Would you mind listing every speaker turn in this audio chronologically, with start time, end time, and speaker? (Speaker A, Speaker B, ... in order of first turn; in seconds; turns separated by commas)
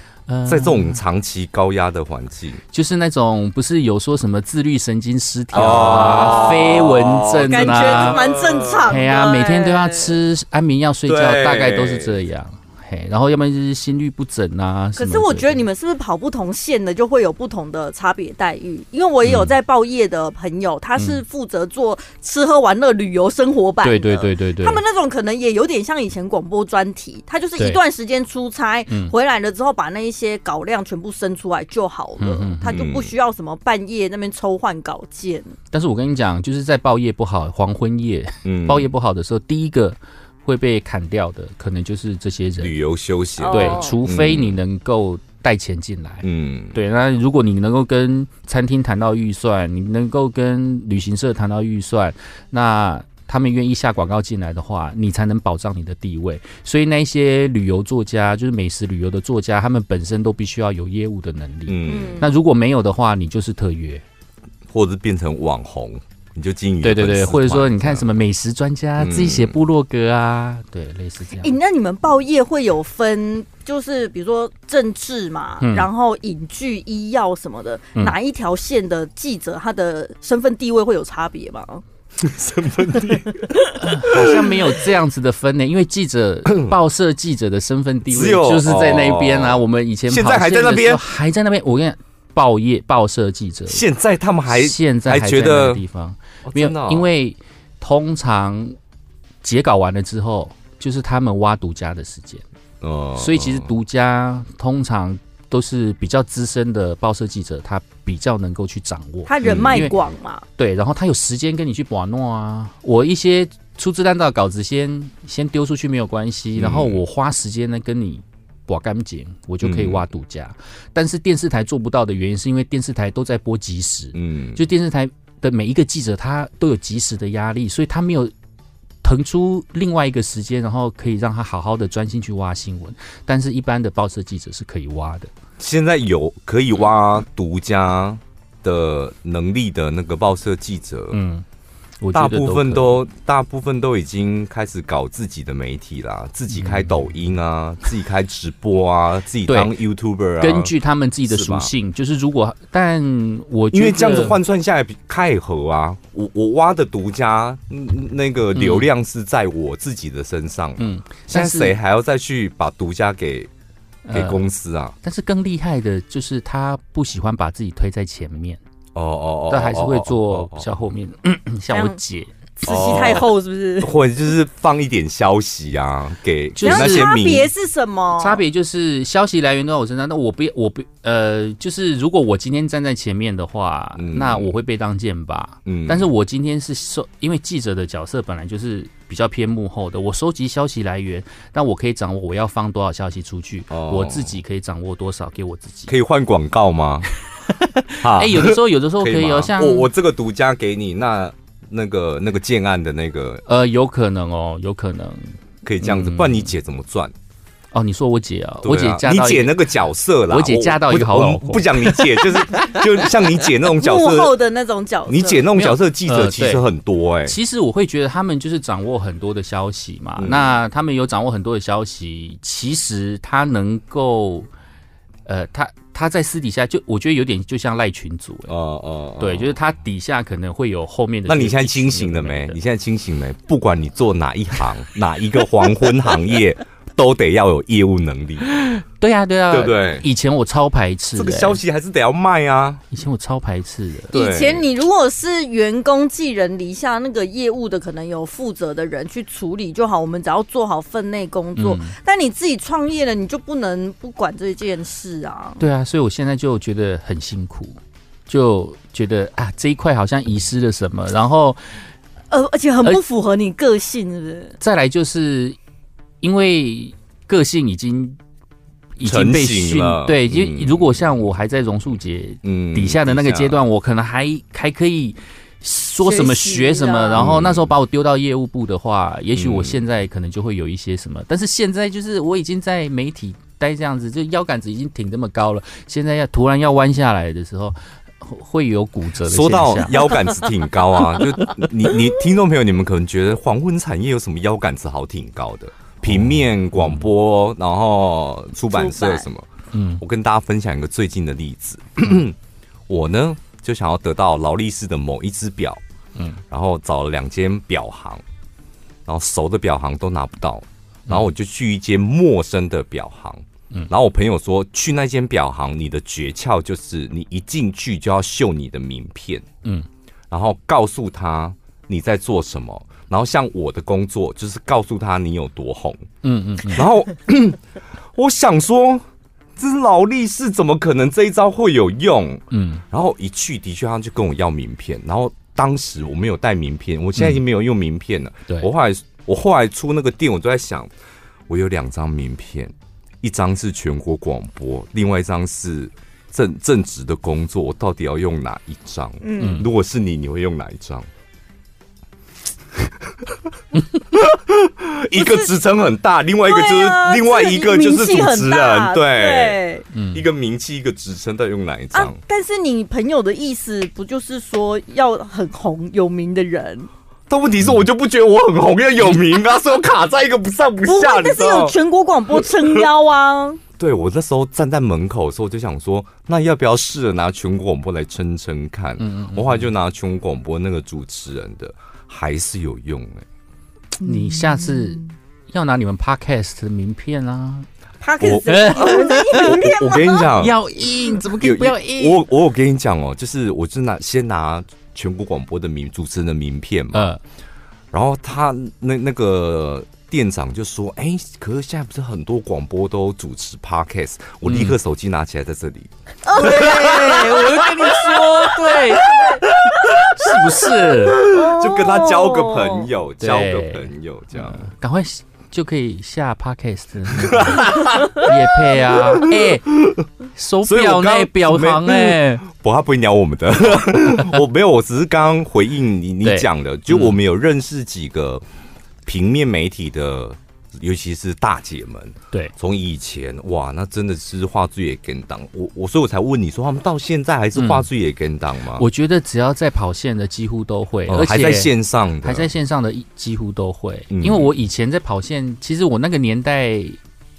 Speaker A: 0.3-1.0, Speaker B: 0.5-2.6, Speaker A: 2.7-8.2, Speaker B: 5.5-9.0, Speaker C: 5.5-6.9, Speaker C: 7.4-10.2, Speaker A: 8.8-15.6, Speaker B: 11.1-12.2, Speaker C: 14.9-35.5, Speaker A: 19.2-19.5, Speaker A: 21.0-21.2, Speaker A: 23.8-24.8, Speaker A: 32.2-32.8, Speaker B: 32.7-33.1, Speaker A: 35.7-42.7, Speaker B: 38.4-38.9, Speaker B: 42.6-44.5, Speaker C: 43.4-44.0, Speaker A: 43.5-64.0, Speaker B: 46.2-46.8, Speaker B: 61.7-62.2, Speaker C: 61.9-62.3, Speaker B: 64.7-68.1, Speaker A: 66.8-71.5, Speaker B: 69.0-69.5, Speaker C: 71.4-81.8, Speaker A: 75.6-75.9, Speaker B: 82.2-84.4, Speaker C: 83.4-83.7, Speaker A: 83.8-93.8, Speaker B: 86.5-86.7, Speaker B: 88.1-91.0, Speaker B: 93.7-95.8, Speaker A: 94.5-98.8, Speaker B: 96.5-97.1, Speaker A: 99.4-102.4, Speaker B: 102.8-103.7, Speaker A: 103.2-110.0, Speaker C: 109.2-110.4, Speaker B: 109.4-109.9, Speaker A: 110.6-128.3, Speaker B: 116.5-117.0, Speaker B: 119.6-120.0, Speaker B: 124.1-124.6, Speaker A: 129.0-135.3, Speaker B: 135.6-141.2, Speaker A: 141.1-141.4, Speaker A: 142.0-143.0, Speaker B: 142.1-150.7, Speaker A: 146.5-147.0, Speaker A: 149.5-149.7, Speaker A: 150.4-154.4, Speaker B: 151.3-151.7, Speaker B: 153.7-163.5, Speaker A: 158.5-158.9, Speaker A: 160.8-161.8, Speaker A: 164.1-164.4, Speaker B: 164.1-164.9, Speaker A: 165.0-168.6, Speaker B: 168.9-170.7, Speaker A: 169.5-172.3, Speaker C: 171.7-172.0, Speaker C: 172.6-173.9, Speaker B: 172.6-173.3, Speaker A: 172.9-173.2, Speaker B: 173.8-177.5, Speaker A: 176.6-177.1, Speaker C: 176.6-178.4, Speaker A: 178.2-195.9, Speaker B: 184.0-184.5, Speaker B: 185.7-186.1, Speaker B: 193.7-194.4, Speaker B: 195.9-197.1, Speaker A: 197.4-199.9, Speaker B: 198.0-203.4, Speaker A: 203.4-206.5, Speaker B: 205.6-207.1, Speaker A: 207.7-209.7, Speaker B: 208.6-214.3, Speaker A: 210.3-212.8, Speaker C: 213.8-215.5, Speaker B: 215.1-217.3, Speaker A: 215.5-216.6, Speaker A: 217.2-224.5, Speaker B: 220.2-220.5, Speaker A: 225.2-228.5, Speaker B: 228.5-229.5, Speaker A: 229.2-232.6, Speaker B: 231.3-238.5, Speaker A: 238.6-241.6, Speaker B: 239.5-240.1, Speaker B: 241.2-242.8, Speaker A: 242.9-244.1, Speaker B: 244.1-244.6, Speaker C: 244.1-255.6, Speaker A: 251.6-251.9, Speaker A: 255.6-261.7, Speaker C: 262.3-264.6, Speaker A: 264.6-265.6, Speaker A: 266.2-268.2, Speaker A: 269.0-290.1, Speaker B: 269.0-270.9, Speaker B: 272.4-273.6, Speaker C: 276.0-277.2, Speaker B: 277.1-277.7, Speaker B: 279.3-279.8, Speaker B: 289.2-299.5, Speaker A: 296.1-297.0, Speaker C: 298.7-299.3, Speaker A: 299.7-300.0, Speaker B: 300.0-302.4, Speaker B: 302.9-305.8, Speaker B: 306.5-308.2, Speaker B: 309.1-319.4, Speaker B: 320.3-326.0, Speaker A: 326.2-326.9, Speaker B: 326.7-327.6, Speaker B: 328.1-329.0, Speaker B: 329.6-340.9, Speaker A: 332.5-332.8, Speaker A: 337.2-337.4, Speaker B: 341.5-351.1, Speaker C: 349.2-349.6, Speaker A: 349.4-349.6, Speaker B: 354.1-359.6, Speaker C: 355.1-355.5, Speaker C: 356.4-359.9, Speaker A: 359.9-360.2, Speaker B: 360.1-362.2, Speaker C: 361.9-366.9, Speaker B: 367.3-371.8, Speaker C: 370.8-373.6, Speaker B: 373.8-383.2, Speaker A: 379.0-379.7, Speaker A: 384.0-387.7, Speaker C: 388.0-390.3, Speaker B: 388.2-390.6, Speaker A: 388.5-389.7, Speaker A: 390.4-392.2, Speaker B: 391.4-397.1, Speaker A: 396.9-397.2, Speaker B: 397.9-414.7, Speaker A: 404.4-404.8, Speaker C: 406.2-407.6, Speaker A: 406.3-411.2, Speaker C: 411.2-412.9, Speaker A: 413.2-422.4, Speaker B: 417.1-420.0, Speaker B: 420.6-428.4, Speaker A: 423.7-424.4, Speaker A: 426.2-427.2, Speaker B: 429.1-438.8, Speaker A: 437.6-437.9, Speaker A: 438.8-447.0, Speaker B: 441.1-442.5, Speaker B: 444.1-444.5